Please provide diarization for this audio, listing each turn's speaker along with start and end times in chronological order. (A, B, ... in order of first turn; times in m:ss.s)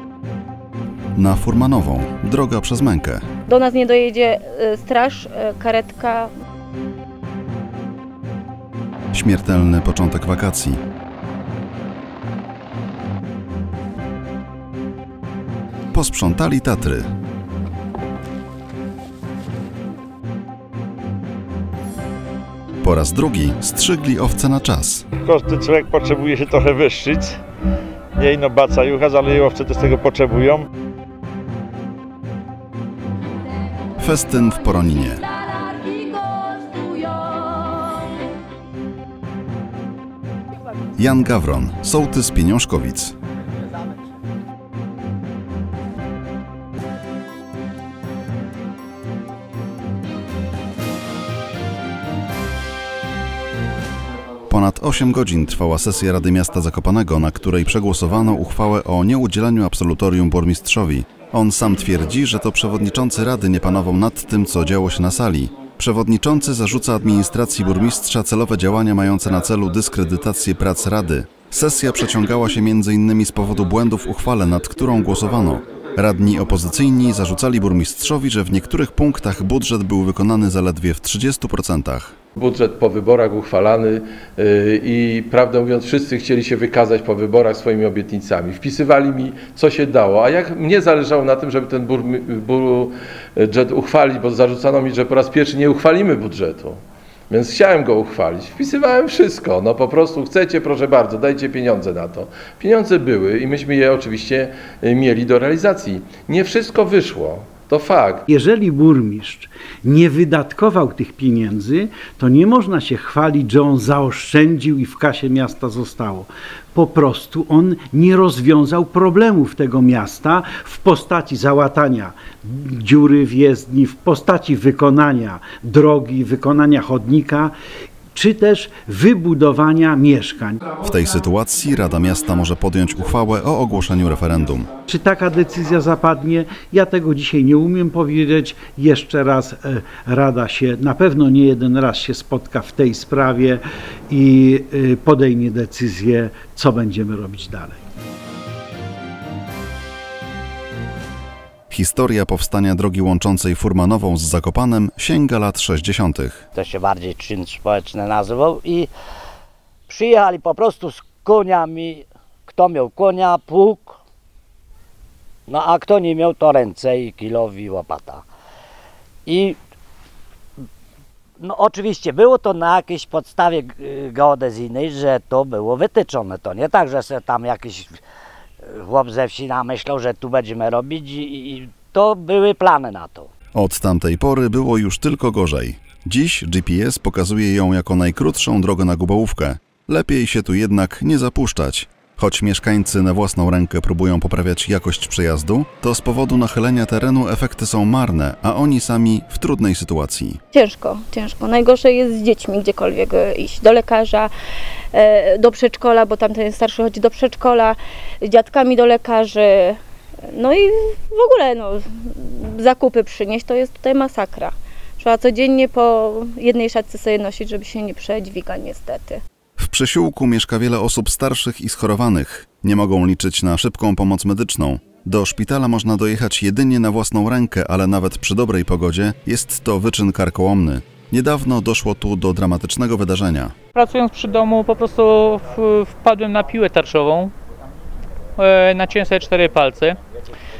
0:01.2-0:03.2 A
0:03.5-0:06.3 B
0:09.1-0:10.8 A
0:15.9-0:17.0 A
0:22.8-0:25.0 A
0:25.2-0:27.4 C
0:28.2-0:30.7 C
0:34.0-0:35.3 A
0:41.0-0:43.1 A
0:54.5-1:22.1 A
1:22.4-1:36.8 D
1:37.3-1:48.2 D
1:48.3-2:07.5 E
2:08.1-2:10.6 E
2:10.8-2:14.7 A
2:14.9-2:27.8 E
2:31.7-2:36.4 A
2:36.6-2:38.9 F
2:39.9-2:44.0 F
2:45.5-2:48.2 F
2:49.3-2:49.6 F
2:51.4-2:58.0 F
2:58.7-3:03.3 F
3:03.6-3:20.4 A
3:20.5-3:24.3 B
3:24.9-3:29.8 B
3:30.3-3:39.2 B
3:39.6-3:53.5 A
3:53.7-3:57.3 G
3:58.4-4:00.0 G